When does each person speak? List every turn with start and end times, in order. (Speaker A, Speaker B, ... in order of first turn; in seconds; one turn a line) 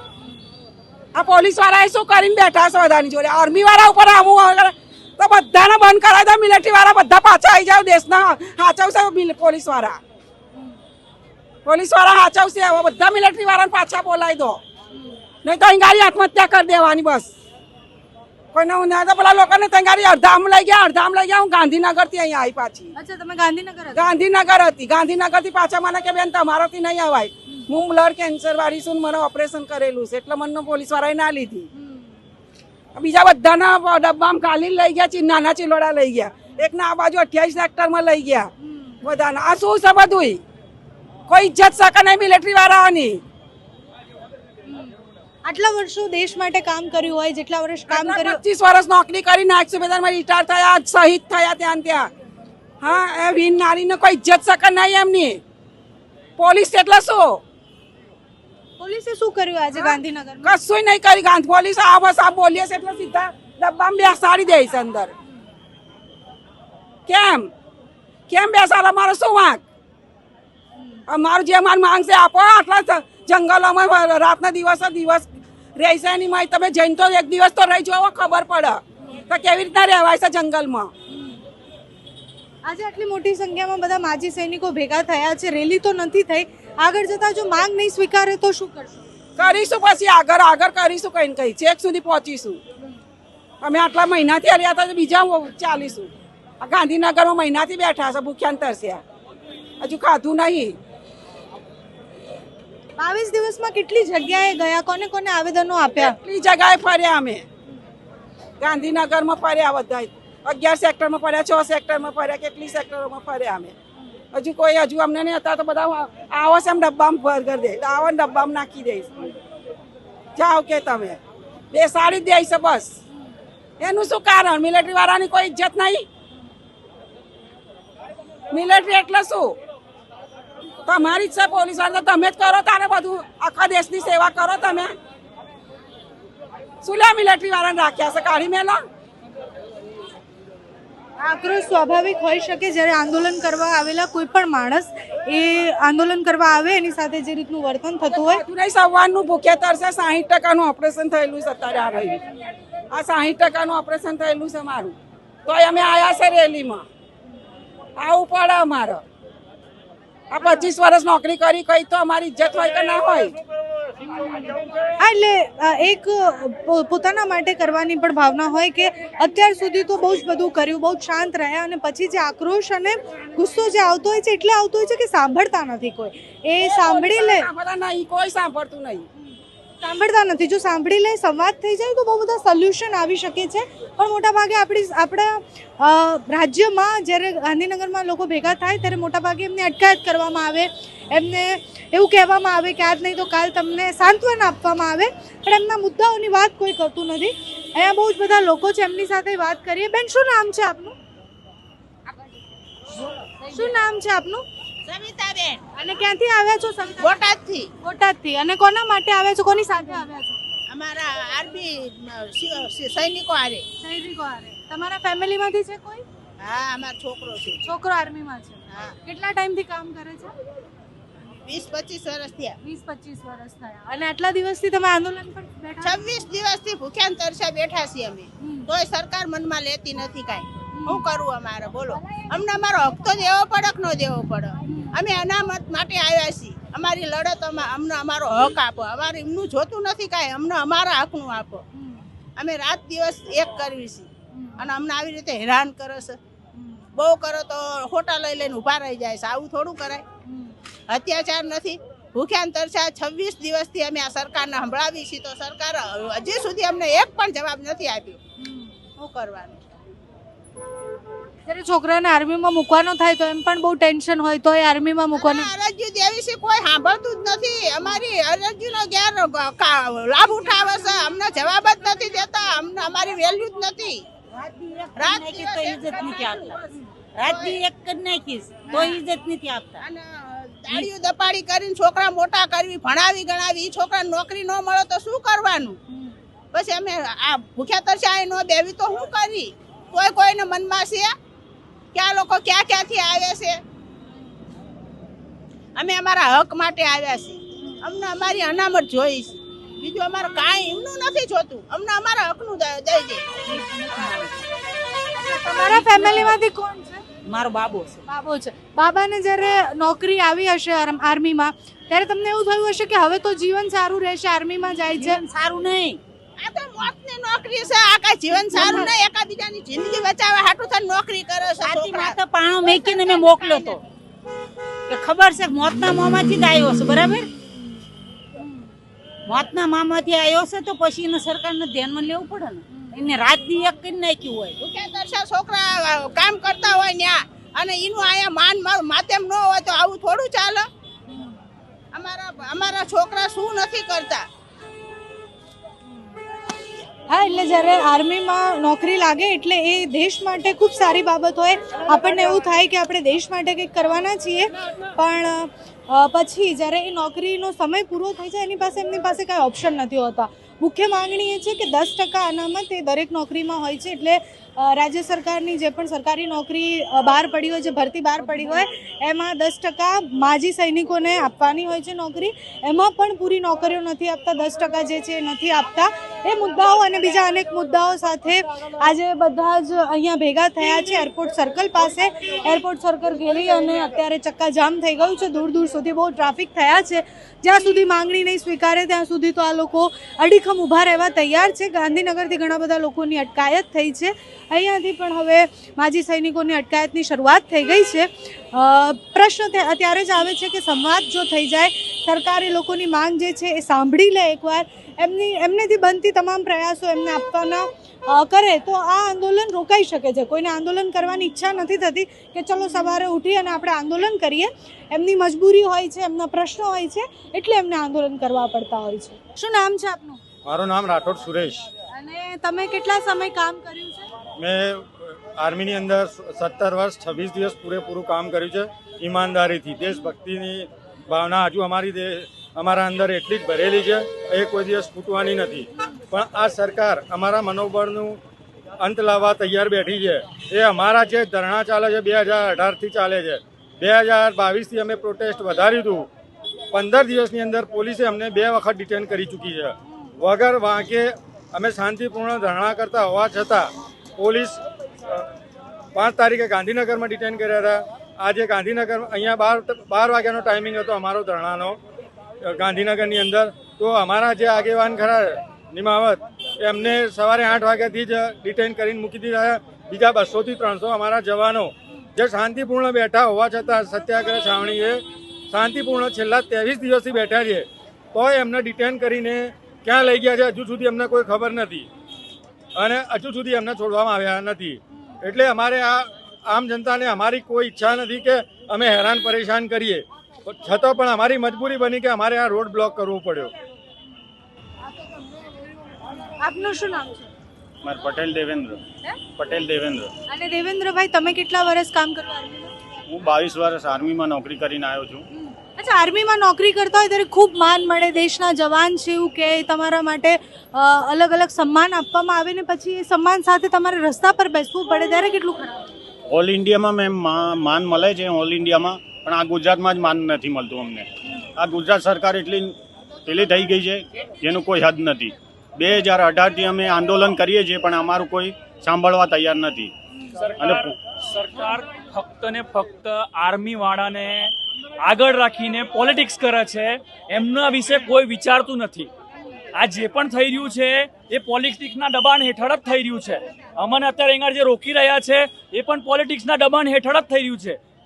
Speaker A: 1.1-10.0
Speaker A: 11.6-14.6
Speaker A: 15.4-17.3
Speaker A: 18.5-22.9
Speaker B: 22.9-24.1
Speaker A: 23.9-31.6
Speaker B: 31.8-32.1
Speaker A: 32.9-38.5
Speaker B: 38.6-38.9
Speaker A: 39.0-40.4
Speaker A: 41.3-43.2
Speaker B: 45.4-48.4
Speaker A: 47.9-52.1
Speaker A: 52.8-55.4
Speaker A: 56.4-57.4
Speaker B: 58.8-60.5
Speaker A: 59.7-65.1
Speaker A: 67.1-67.5
Speaker A: 68.3-69.6
Speaker A: 71.1-80.9
Speaker B: 81.1-81.4
Speaker B: 82.7-89.1
Speaker A: 89.4-92.6
Speaker A: 93.6-99.0
Speaker A: 99.8-100.7
Speaker B: 103.0-106.2
Speaker A: 105.9-107.4
Speaker A: 108.6-113.7
Speaker A: 114.3-119.3
Speaker A: 120.3-121.2
Speaker A: 121.7-122.9
Speaker A: 123.8-126.0
Speaker A: 128.5-129.6
Speaker A: 130.8-134.9
Speaker A: 136.8-138.8
Speaker B: 141.2-148.4
Speaker A: 148.1-152.2
Speaker A: 152.9-154.9
Speaker A: 155.5-156.8
Speaker A: 158.0-159.0
Speaker A: 160.3-163.3
Speaker B: 165.0-177.5
Speaker A: 176.6-179.0
Speaker B: 179.8-200.9
Speaker B: 203.5-204.4
Speaker C: 204.9-205.6
Speaker B: 205.8-207.2
Speaker C: 207.0-207.7
Speaker B: 207.8-210.4
Speaker C: 210.7-211.7
Speaker C: 212.3-213.6
Speaker B: 213.8-216.0
Speaker C: 216.4-217.7
Speaker B: 217.6-220.3
Speaker C: 221.5-222.6
Speaker B: 222.6-226.1
Speaker C: 225.8-241.6
Speaker B: 228.4-228.7
Speaker B: 230.8-231.0
Speaker C: 242.4-246.2
Speaker C: 246.9-250.0
Speaker B: 250.3-250.5
Speaker C: 250.9-258.2
Speaker B: 258.4-258.7
Speaker C: 258.9-259.6
Speaker B: 261.5-265.5
Speaker C: 265.1-274.0
Speaker D: 274.3-276.6
Speaker C: 274.9-276.6
Speaker D: 277.1-279.8
Speaker C: 277.2-277.6
Speaker C: 278.7-279.1
Speaker C: 279.8-280.1
Speaker C: 280.6-285.8
Speaker C: 286.5-291.1
Speaker C: 291.9-293.6
Speaker C: 295.8-303.3
Speaker D: 303.4-304.4
Speaker B: 305.2-307.0
Speaker D: 305.3-306.4
Speaker D: 307.2-308.0
Speaker B: 308.1-315.2
Speaker D: 314.9-316.0
Speaker C: 316.4-323.8
Speaker D: 318.5-318.9
Speaker D: 321.6-323.8
Speaker D: 324.9-327.3
Speaker D: 329.2-334.6
Speaker C: 334.6-340.6
Speaker C: 341.9-344.2
Speaker B: 347.1-420.2
Speaker E: 420.4-421.6
Speaker B: 421.9-424.1
Speaker E: 424.4-438.2
Speaker E: 438.8-446.1
Speaker E: 446.7-455.3
Speaker E: 455.9-461.8
Speaker E: 462.4-481.9
Speaker E: 482.8-493.5
Speaker B: 496.4-497.3
Speaker F: 497.8-498.8
Speaker F: 499.4-500.1
Speaker B: 500.3-502.7
Speaker F: 503.1-505.2
Speaker B: 505.4-516.0
Speaker F: 516.3-522.7
Speaker F: 523.2-529.9
Speaker G: 530.4-539.1
Speaker F: 530.6-530.9
Speaker G: 539.7-547.8